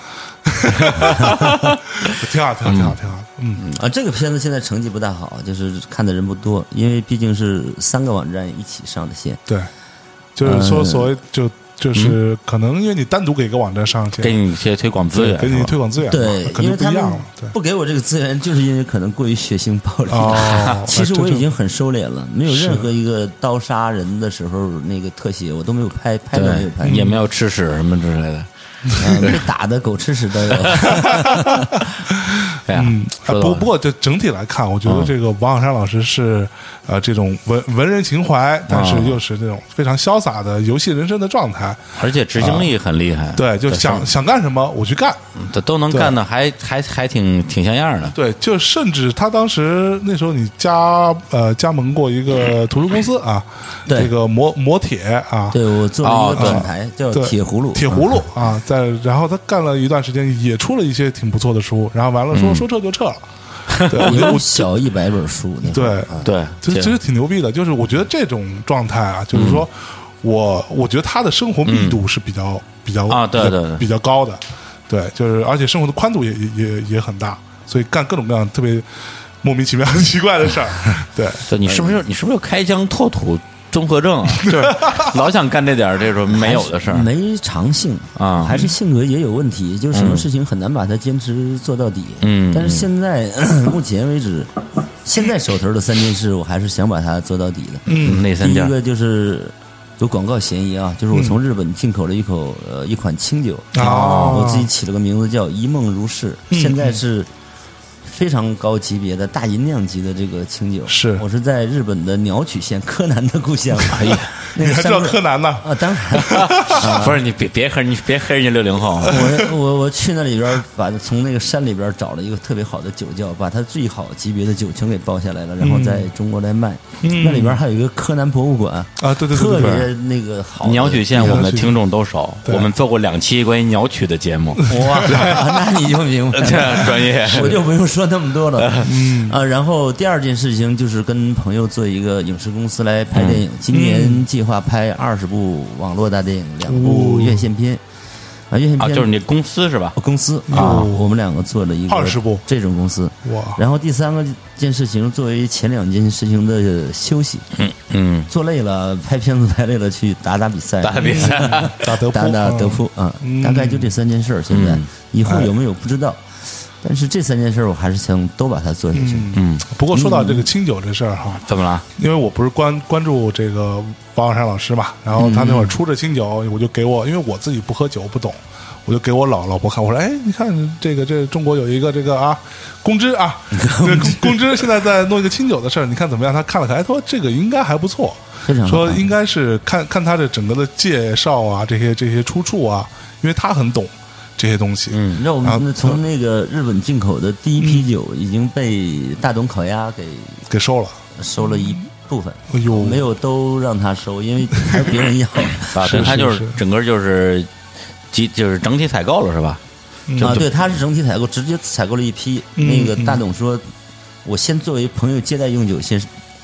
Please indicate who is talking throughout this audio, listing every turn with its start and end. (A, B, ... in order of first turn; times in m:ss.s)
0:00.4-0:01.4 A
0:00.7-0:02.0 B
0:01.2-0:01.6 C
0:02.0-0:03.6 A
0:02.6-0:03.0 B
0:03.7-0:09.4 C
0:10.3-0:14.4 A
0:10.4-0:11.1 C
0:14.2-0:15.8 B
0:15.1-0:17.5 A
0:16.0-0:27.1 C
0:20.1-0:21.4 A
0:20.4-0:20.8 B
0:22.5-0:22.9 A
0:26.3-0:28.5 B
0:26.8-0:27.2 A
0:28.9-0:29.3 A
0:29.0-0:31.7 C
0:30.9-0:31.5 A
0:32.2-0:41.8 A
0:32.6-0:33.7 B
0:34.8-0:35.1 B
0:38.7-0:39.2 B
0:42.0-0:44.1 B
0:42.3-0:42.7 A
0:43.4-0:45.2 A
0:45.4-0:48.1 B
0:48.1-0:55.6 A
0:53.9-0:54.1 C
0:55.5-0:58.2 C
0:56.0-0:56.7 B
0:56.4-1:03.2 A
1:02.3-1:02.6 B
1:03.7-1:04.4 B
1:03.9-1:04.5 A
1:04.0-1:06.3 C
1:05.7-1:18.9 A
1:06.2-1:07.0 B
1:09.3-1:09.6 B
1:11.6-1:12.0 B
1:13.1-1:13.8 B
1:19.4-1:21.4 A
1:21.5-1:27.1 B
1:21.6-1:22.0 C
1:24.4-1:25.1 A
1:26.3-1:34.5 C
1:28.2-1:28.6 B
1:29.9-1:30.2 B
1:32.2-1:32.9 B
1:35.0-1:47.3 C
1:37.9-1:38.2 A
1:38.0-1:38.7 B
1:41.1-1:41.4 A
1:43.7-1:44.7 A
1:43.8-1:44.5 B
1:46.5-1:47.0 A
1:48.0-1:57.2 C
1:50.9-1:51.2 A
1:53.9-1:54.3 B
1:54.5-1:57.0 A
1:56.3-1:59.2 B
1:59.0-2:11.5 C
1:59.1-1:59.4 A
2:05.6-2:06.1 A
2:07.0-2:07.6 A
2:09.0-2:09.9 A
2:09.5-2:09.9 B
2:10.6-2:15.2 B
2:11.1-2:11.8 A
2:14.6-2:15.4 A
2:14.6-2:27.8 C
2:16.3-2:17.6 B
2:18.6-2:18.9 B
2:18.8-2:19.4 A
2:23.1-2:23.4 B
2:23.7-2:24.2 A
2:26.6-2:27.5 A
2:28.5-2:29.1 C
2:28.8-2:30.0 B
2:29.9-2:37.5 C
2:30.5-2:31.0 A
2:30.5-2:30.9 B
2:31.9-2:32.4 A
2:33.2-2:33.6 A
2:37.6-2:38.3 B
2:38.3-2:46.2 C
2:40.8-2:41.9 B
2:41.0-2:43.9 A
2:44.5-2:44.8 B
2:45.2-2:45.5 A
2:46.8-2:49.4 C
2:48.9-2:51.4 A
2:49.3-2:49.7 B
2:49.9-2:50.5 C
2:51.5-2:51.8 B
2:52.0-3:16.0 A
2:55.2-2:55.8 C
3:03.5-3:04.6 C
3:08.4-3:09.1 C
3:14.9-3:15.2 B
3:15.1-3:20.4 C
3:17.6-3:17.9 A
3:20.5-3:21.0 A
3:21.1-3:26.1 C
3:22.5-3:23.0 A
3:24.6-3:24.9 A
3:25.7-3:27.5 B
3:25.8-3:26.6 A
3:28.1-3:29.6 B
3:30.1-3:30.4 A
3:30.2-3:30.5 B
3:30.2-3:33.6 C
3:32.6-3:33.2 A
3:34.2-3:36.1 C